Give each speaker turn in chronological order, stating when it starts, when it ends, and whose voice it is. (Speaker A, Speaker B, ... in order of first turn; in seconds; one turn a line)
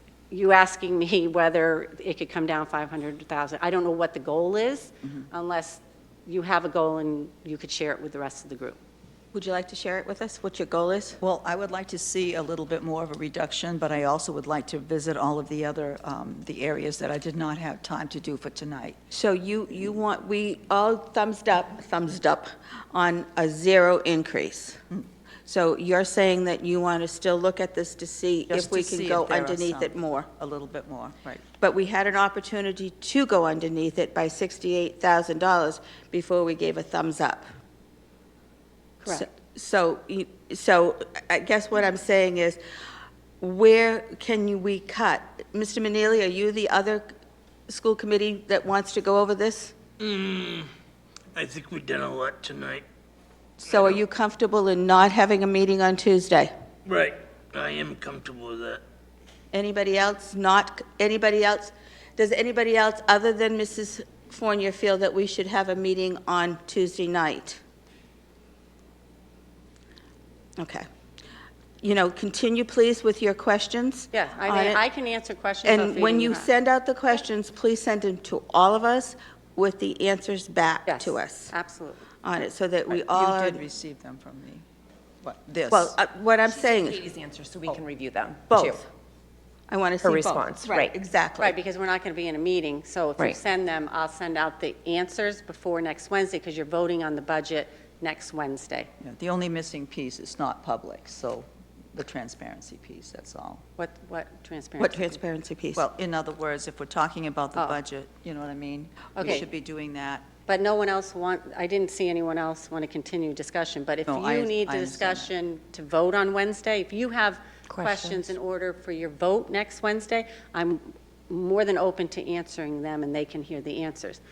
Speaker A: 0.3-8.8
Speaker B: 9.3-11.2
Speaker C: 11.2-19.0
Speaker B: 19.1-24.8
Speaker B: 25.4-30.3
Speaker C: 28.5-31.4
Speaker B: 31.6-37.4
Speaker B: 39.0-42.6
Speaker B: 43.4-47.1
Speaker B: 47.7-49.7
Speaker D: 50.0-50.7
Speaker D: 51.3-52.8
Speaker B: 53.6-56.5
Speaker D: 53.6-54.0
Speaker D: 56.9-58.8
Speaker B: 59.5-67.6
Speaker B: 70.6-70.8
Speaker B: 71.8-74.8
Speaker A: 74.1-76.5
Speaker B: 75.6-81.5
Speaker A: 80.9-82.0
Speaker B: 82.2-83.6
Speaker C: 82.9-84.6
Speaker C: 85.2-86.0
Speaker B: 85.7-87.1
Speaker E: 86.6-88.7
Speaker B: 88.5-88.9
Speaker B: 89.7-91.5
Speaker E: 90.0-90.9
Speaker A: 91.4-98.9
Speaker C: 99.0-103.6
Speaker A: 103.8-105.2
Speaker B: 104.8-105.8
Speaker C: 105.7-110.3
Speaker A: 109.2-109.4
Speaker A: 110.5-124.2
Speaker C: 114.1-115.3
Speaker E: 117.7-118.1